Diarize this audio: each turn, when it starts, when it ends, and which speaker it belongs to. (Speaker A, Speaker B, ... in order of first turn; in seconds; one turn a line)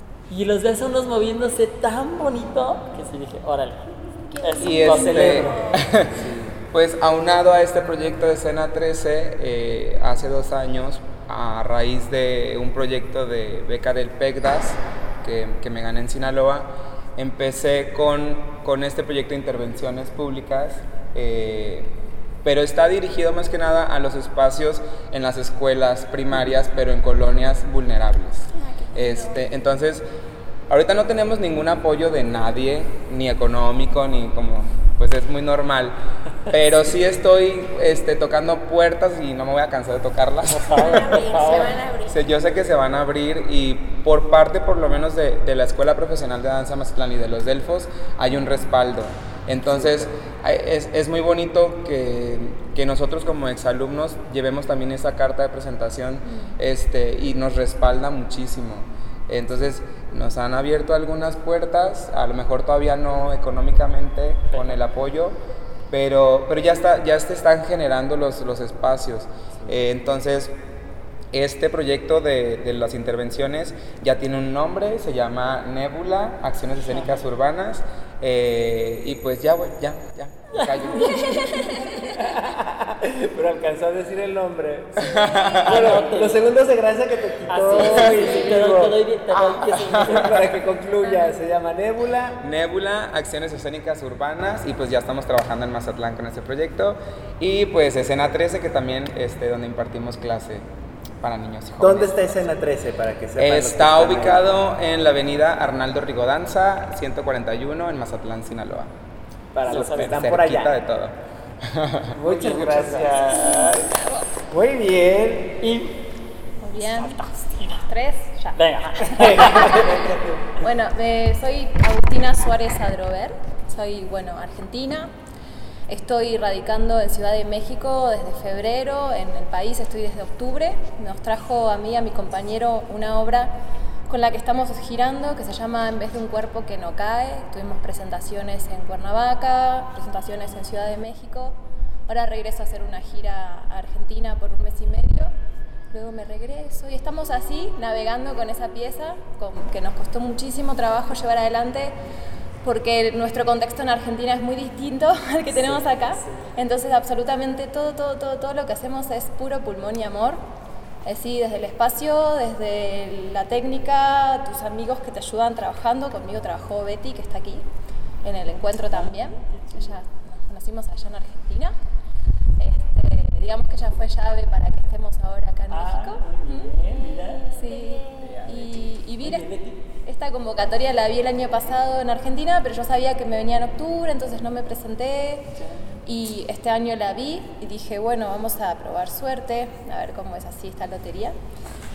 Speaker A: 0.3-3.9
Speaker B: 4.2-6.1
Speaker A: 4.4-5.8
Speaker C: 4.6-6.1
Speaker D: 6.1-6.5
Speaker C: 6.7-30.0
Speaker B: 28.5-29.4
Speaker C: 30.7-36.0
Speaker C: 36.5-41.5
Speaker A: 40.5-41.8
Speaker B: 40.7-42.2
Speaker C: 42.1-65.4
Speaker D: 49.8-50.1
Speaker C: 65.9-70.5
Speaker C: 71.3-81.4
Speaker A: 80.5-81.5
Speaker B: 80.9-82.2
Speaker D: 82.1-89.0
Speaker C: 85.0-86.0
Speaker A: 85.7-86.5
Speaker A: 87.5-90.4
Speaker C: 87.9-88.2
Speaker C: 89.3-90.4
Speaker D: 89.9-92.4
Speaker E: 91.0-91.4
Speaker C: 92.4-100.7
Speaker C: 101.2-102.5
Speaker D: 101.8-104.4
Speaker C: 103.4-108.9
Speaker D: 109.5-110.7
Speaker A: 109.7-110.3
Speaker C: 109.7-112.2
Speaker D: 112.1-113.9
Speaker A: 112.2-113.8
Speaker B: 113.4-114.3
Speaker D: 114.5-115.6
Speaker A: 115.6-116.0
Speaker E: 116.6-117.2
Speaker A: 116.8-117.8
Speaker E: 117.8-125.1
Speaker A: 118.6-119.8
Speaker D: 119.2-120.4
Speaker E: 125.9-133.6
Speaker E: 134.1-141.6
Speaker E: 142.1-145.3
Speaker E: 145.9-151.9
Speaker E: 152.6-160.4
Speaker A: 155.5-156.5
Speaker E: 161.0-167.7
Speaker E: 168.2-171.7
Speaker A: 168.7-169.9
Speaker E: 172.6-176.7
Speaker A: 175.7-177.4
Speaker B: 176.9-178.4
Speaker E: 177.5-179.5
Speaker A: 178.1-179.8
Speaker E: 180.0-185.5
Speaker E: 186.1-191.3